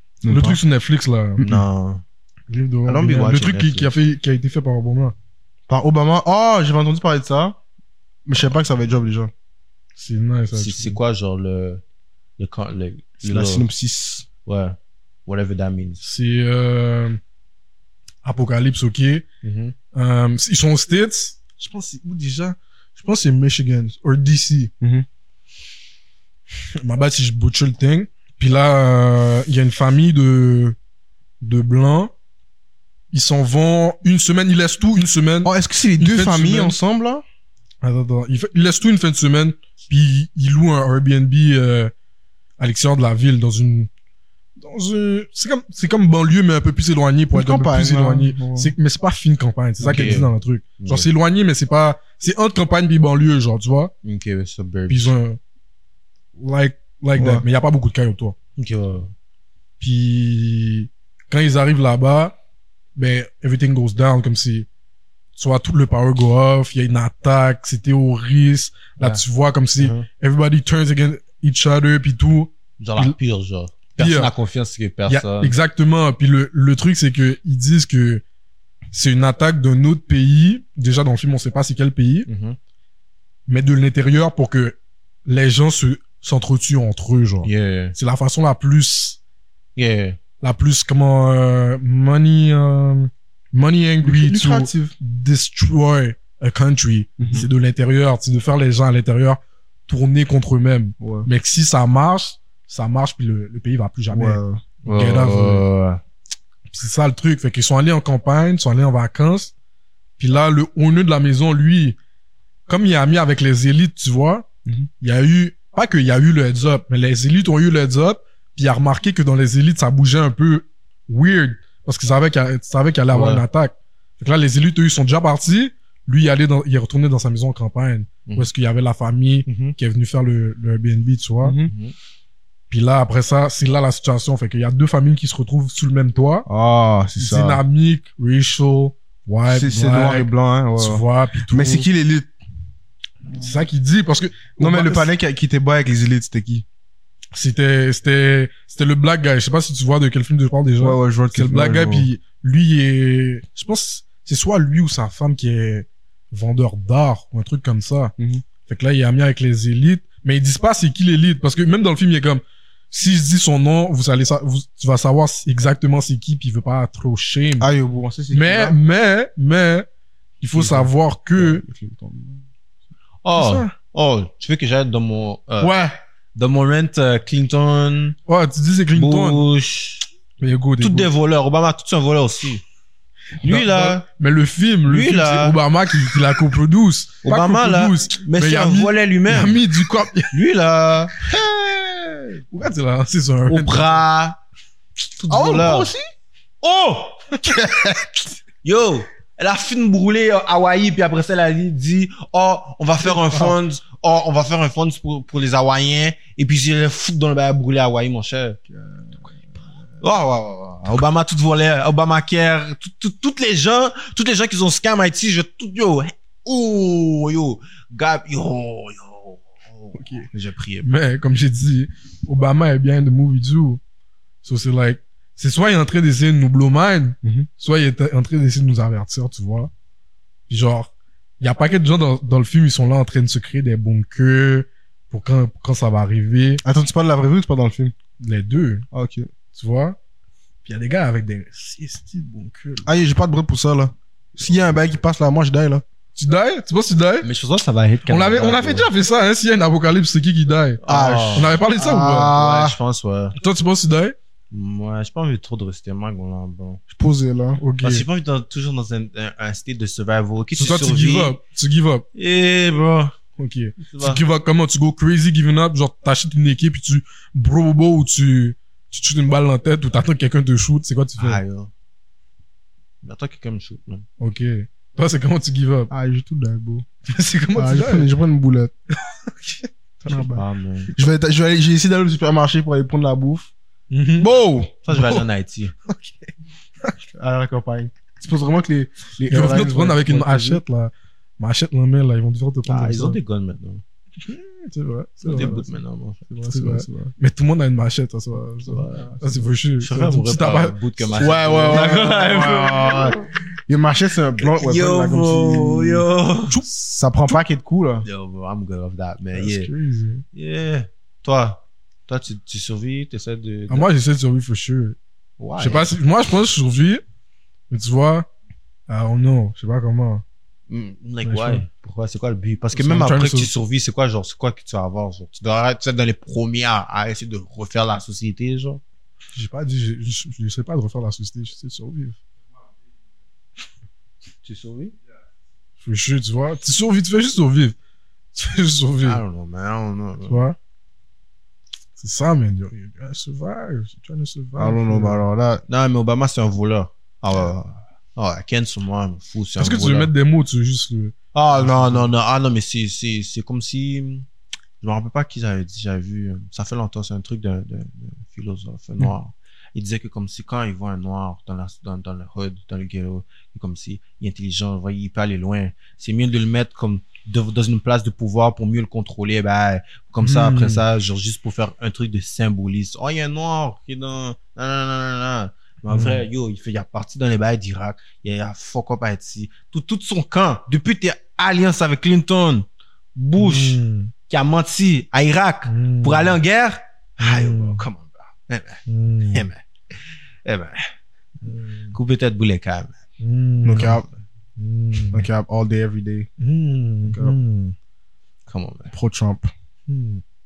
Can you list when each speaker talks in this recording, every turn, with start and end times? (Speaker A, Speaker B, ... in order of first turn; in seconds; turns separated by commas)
Speaker A: 0.2-0.6, Speaker B: 0.3-1.4, Speaker C: 1.4-2.0, Speaker B: 2.5-5.1, Speaker C: 2.9-3.9, Speaker A: 5.7-7.6, Speaker A: 8.2-9.3, Speaker B: 10.0-11.0, Speaker C: 10.5-11.8, Speaker C: 12.4-13.7, Speaker A: 13.2-14.3, Speaker C: 14.4-16.0, Speaker B: 16.0-17.2, Speaker B: 18.2-19.2, Speaker C: 19.4-19.7, Speaker B: 19.9-24.7, Speaker A: 24.8-25.1, Speaker B: 26.7-30.8, Speaker B: 31.4-32.1, Speaker B: 33.1-36.8, Speaker A: 35.4-37.2, Speaker B: 37.8-41.9, Speaker B: 42.6-43.9, Speaker B: 44.6-53.9, Speaker A: 47.3-48.7, Speaker C: 49.8-51.1, Speaker C: 54.0-55.1, Speaker B: 54.9-55.4, Speaker B: 56.4-58.4, Speaker A: 57.1-57.4, Speaker C: 58.6-59.1, Speaker B: 59.8-62.3, Speaker B: 63.0-64.7, Speaker B: 65.3-73.2, Speaker C: 69.8-70.1, Speaker C: 72.8-75.5, Speaker B: 74.0-74.3, Speaker B: 75.1-78.2, Speaker B: 78.9-82.3, Speaker C: 82.3-82.6, Speaker B: 83.5-89.2, Speaker C: 87.4-87.9, Speaker C: 89.8-90.2, Speaker B: 90.4-105.6, Speaker A: 94.0-94.9, Speaker A: 97.2-97.5, Speaker A: 101.0-101.3, Speaker A: 104.1-104.6, Speaker C: 104.8-106.0, Speaker B: 106.7-109.5, Speaker B: 110.2-112.0, Speaker B: 112.7-114.5, Speaker B: 115.0-131.6, Speaker C: 123.1-123.4, Speaker A: 131.4-131.7, Speaker C: 131.7-131.9, Speaker B: 132.7-136.5, Speaker A: 136.5-137.6, Speaker B: 137.2-141.9, Speaker A: 139.5-142.3, Speaker B: 143.4-145.1, Speaker A: 144.6-146.6, Speaker B: 147.3-158.1, Speaker A: 150.8-152.1, Speaker B: 158.6-167.7, Speaker A: 167.6-168.8, Speaker B: 168.3-169.9, Speaker B: 170.4-171.6, Speaker A: 170.5-172.4, Speaker C: 173.2-178.2, Speaker B: 173.3-173.7, Speaker B: 178.3-179.4, Speaker C: 178.9-180.0, Speaker B: 180.4-181.1, Speaker C: 180.8-182.6, Speaker C: 183.4-184.0, Speaker B: 183.4-190.3, Speaker C: 184.8-185.6, Speaker C: 187.2-189.6, Speaker C: 190.3-192.4, Speaker B: 192.5-194.0, Speaker C: 193.5-194.4, Speaker C: 195.2-195.9, Speaker A: 195.3-196.0, Speaker C: 196.6-197.5, Speaker A: 197.4-198.1, Speaker C: 198.6-208.6, Speaker B: 203.0-203.5, Speaker A: 208.7-209.3, Speaker C: 210.0-220.9, Speaker B: 219.9-220.3, Speaker B: 220.8-223.8, Speaker B: 224.4-229.7, Speaker B: 230.5-236.6, Speaker A: 236.6-237.9, Speaker B: 238.2-238.8, Speaker A: 238.9-239.3, Speaker B: 239.5-240.0, Speaker B: 240.6-242.9, Speaker A: 242.8-245.8, Speaker B: 246.2-247.3, Speaker C: 247.2-248.9, Speaker B: 248.1-250.8, Speaker C: 250.8-251.6, Speaker A: 250.8-252.8, Speaker B: 251.3-252.3, Speaker C: 252.1-253.3, Speaker B: 253.3-254.1, Speaker C: 254.5-256.8, Speaker A: 256.9-257.6, Speaker B: 257.6-258.0, Speaker C: 257.8-261.4, Speaker B: 260.6-262.1, Speaker C: 262.1-263.1, Speaker B: 263.4-271.4, Speaker C: 263.8-264.2, Speaker C: 271.2-271.7, Speaker C: 273.0-274.1, Speaker B: 274.2-275.9, Speaker A: 275.9-276.9, Speaker B: 277.1-278.1, Speaker A: 277.5-278.7, Speaker B: 279.4-280.3, Speaker A: 280.1-283.5, Speaker C: 280.3-280.9, Speaker B: 283.9-284.3, Speaker A: 284.2-284.8, Speaker C: 284.9-285.7, Speaker B: 284.9-285.2, Speaker A: 287.1-290.6, Speaker B: 289.3-293.2, Speaker C: 292.6-293.8, Speaker B: 294.2-295.6, Speaker C: 295.2-296.2, Speaker A: 295.3-295.6, Speaker B: 296.3-302.0, Speaker A: 296.5-297.1, Speaker C: 298.7-299.2, Speaker C: 299.8-303.2, Speaker A: 301.1-306.1, Speaker C: 304.4-306.6, Speaker B: 306.5-306.7, Speaker A: 306.8-308.1, Speaker C: 308.0-309.7, Speaker B: 309.3-310.2, Speaker C: 310.3-313.9, Speaker B: 313.7-315.0, Speaker C: 315.4-315.9, Speaker B: 315.6-317.0, Speaker B: 317.7-318.3, Speaker B: 318.9-320.2, Speaker C: 320.7-328.8, Speaker B: 321.2-321.6, Speaker B: 322.7-323.5, Speaker B: 329.3-332.2, Speaker C: 334.4-334.9, Speaker B: 335.8-337.7, Speaker B: 338.3-339.2, Speaker C: 339.0-340.4, Speaker B: 340.2-340.6, Speaker B: 342.0-345.2, Speaker A: 344.6-345.6, Speaker C: 345.7-350.1, Speaker B: 349.6-352.1, Speaker C: 351.3-354.2, Speaker C: 354.8-389.6, Speaker B: 370.2-370.8, Speaker B: 375.9-376.2, Speaker B: 383.4-384.1, Speaker B: 385.6-386.4, Speaker B: 387.2-387.8, Speaker B: 388.9-389.5, Speaker C: 390.4-390.9, Speaker B: 391.4-391.9, Speaker C: 391.9-392.9, Speaker B: 393.2-394.0, Speaker A: 393.6-394.1, Speaker B: 394.6-395.3, Speaker A: 395.1-396.3, Speaker B: 396.4-397.7, Speaker A: 397.1-397.4, Speaker C: 398.5-398.9, Speaker A: 398.9-399.5, Speaker B: 399.9-400.2